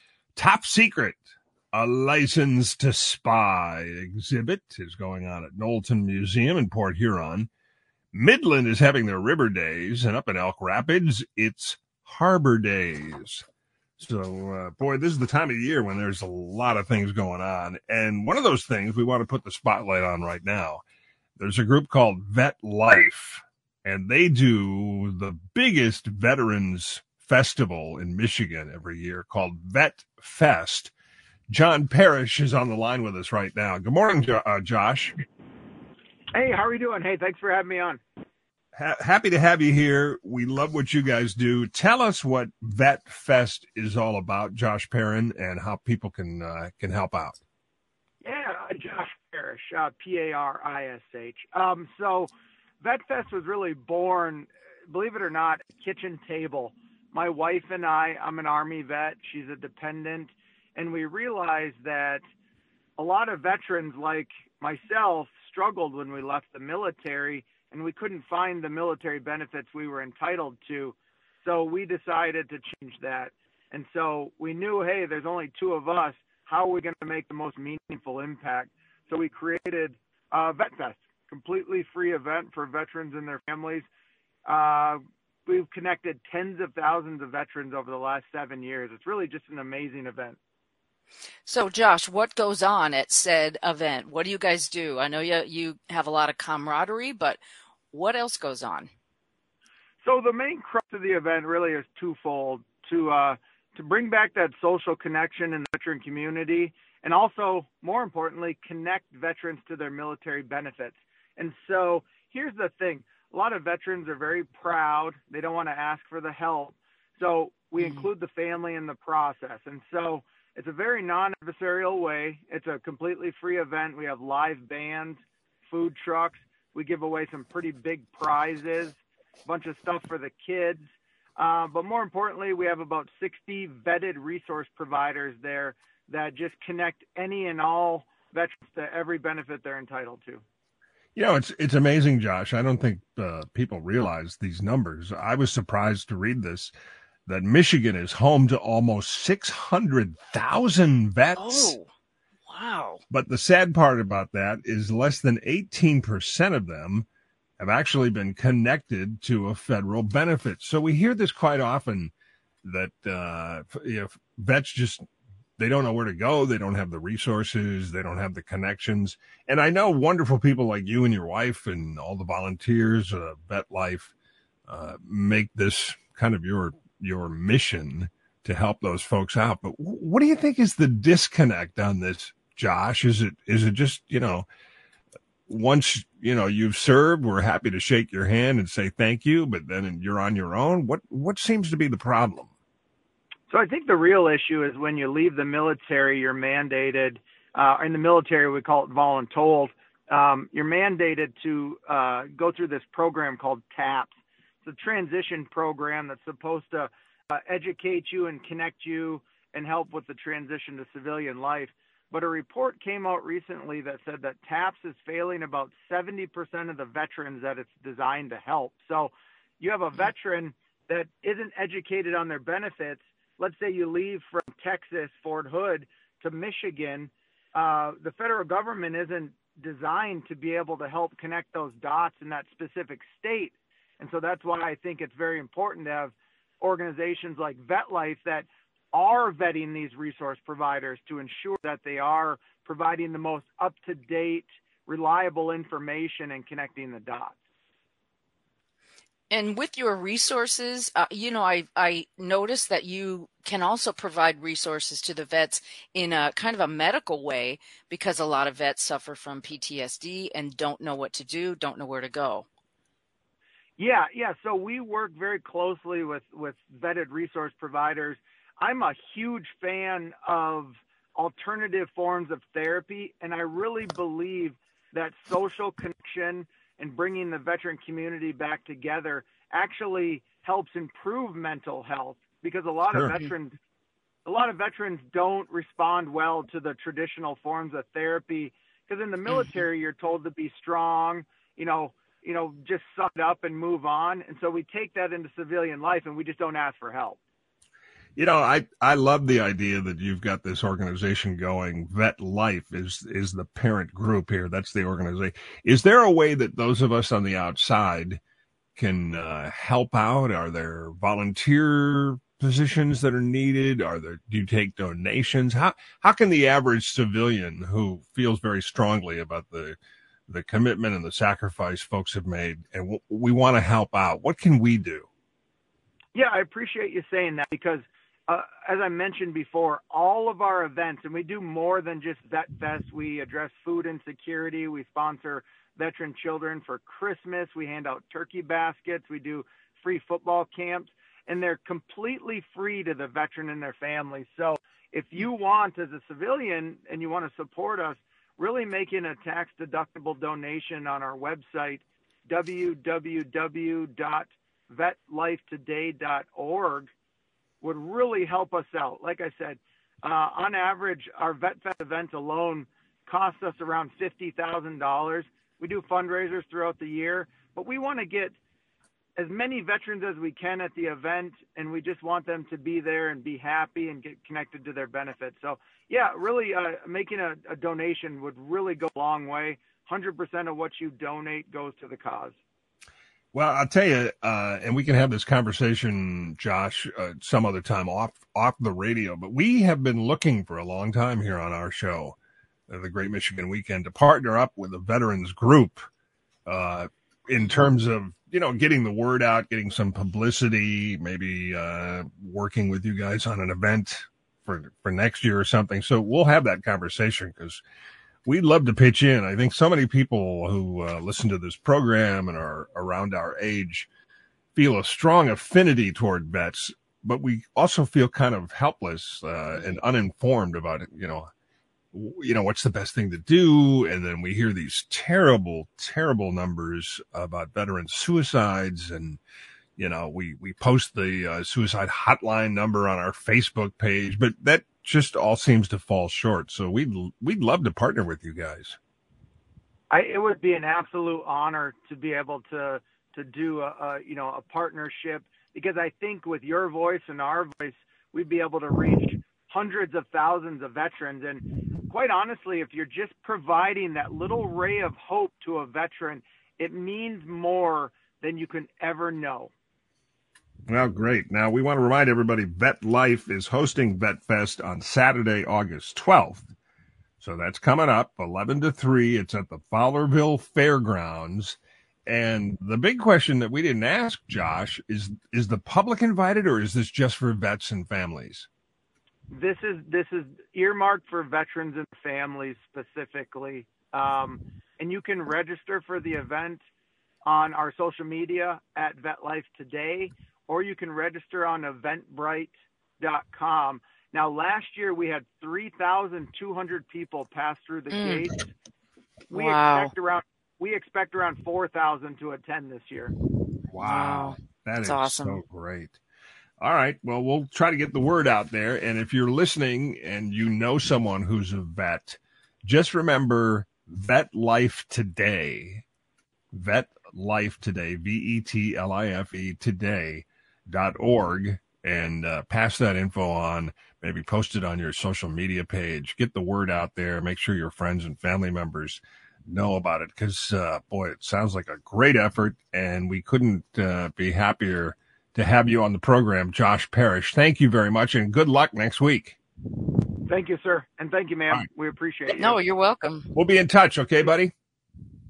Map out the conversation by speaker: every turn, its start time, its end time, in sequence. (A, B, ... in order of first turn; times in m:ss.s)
0:00.4-0:07.5 A
0:08.1-0:13.4 A
0:14.0-0:20.8 A
0:21.4-0:30.9 A
0:31.5-0:35.1 A
0:36.3-0:38.0 B
0:38.7-0:47.4 A
0:48.2-1:02.2 B
1:03.0-1:23.8 B
1:24.4-1:30.4 B
1:31.4-1:37.4 C
1:37.9-1:38.9 C
1:40.0-2:10.8 B
1:57.8-1:58.0 C
2:11.4-2:20.4 B
2:21.2-2:26.7 A
2:27.3-2:31.8 A
2:31.4-2:31.9 C
2:32.5-2:33.0 C
2:33.1-2:37.1 A
2:37.6-2:42.1 A
2:42.6-2:45.0 A
2:45.6-2:54.1 A
2:54.7-3:04.4 A
3:05.5-3:12.5 A
3:13.5-4:07.3 B
4:09.3-4:22.5 C
4:23.8-4:43.6 B
4:44.2-4:57.2 B
4:49.3-4:49.6 C
4:58.2-5:08.2 A
5:08.8-5:19.8 A
5:20.3-5:25.1 A
5:26.1-5:56.9 B
5:57.6-6:08.3 B
6:09.2-6:22.4 B
6:23.3-6:32.2 A
6:32.7-6:35.8 A
6:36.5-6:47.6 A
6:48.2-6:53.9 A
6:54.5-7:01.3 A
7:01.9-7:09.2 A
7:09.8-7:18.8 A
7:19.9-7:39.5 B
7:40.7-7:46.5 A
7:47.2-7:58.5 A
7:59.3-8:06.6 B
8:07.2-8:18.5 B
8:17.9-8:18.2 C
8:19.3-8:19.9 C
8:19.3-8:23.1 B
8:23.7-8:26.0 A
8:23.8-8:25.4 C
8:26.6-8:35.8 A
8:36.5-8:59.4 A
9:00.3-9:02.6 B
9:02.3-9:03.3 C
9:03.3-9:04.5 A